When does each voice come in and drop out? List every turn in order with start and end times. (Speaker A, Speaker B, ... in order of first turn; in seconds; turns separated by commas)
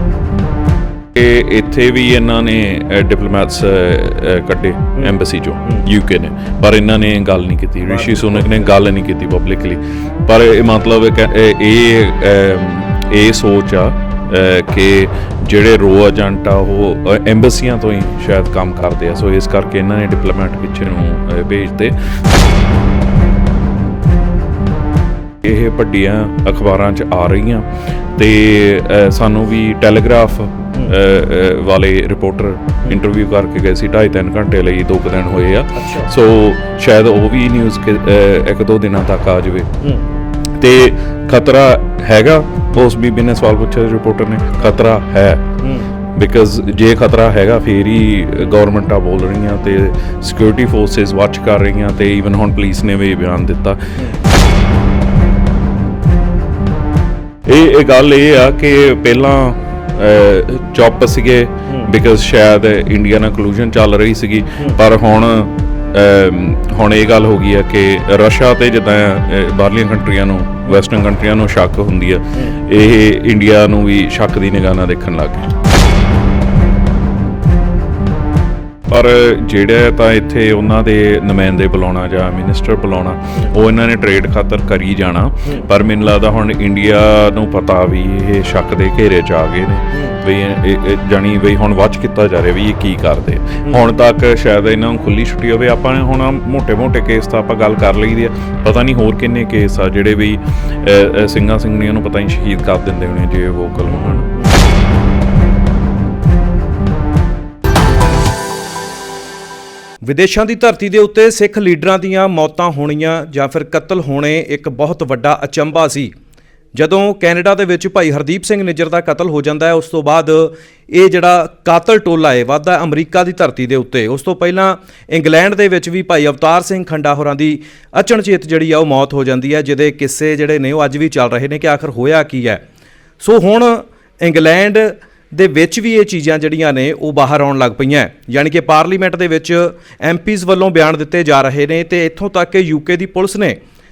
Speaker A: 1.1-21.9, Speaker B: 7.9-8.8, Speaker A: 25.4-39.7, Speaker B: 35.8-36.1, Speaker B: 39.8-40.1, Speaker A: 40.6-45.4, Speaker B: 45.6-45.9, Speaker A: 46.1-53.8, Speaker A: 57.5-75.5, Speaker A: 78.9-104.3, Speaker B: 104.0-104.3, Speaker B: 110.0-116.1, Speaker B: 116.7-132.6, Speaker B: 133.2-143.6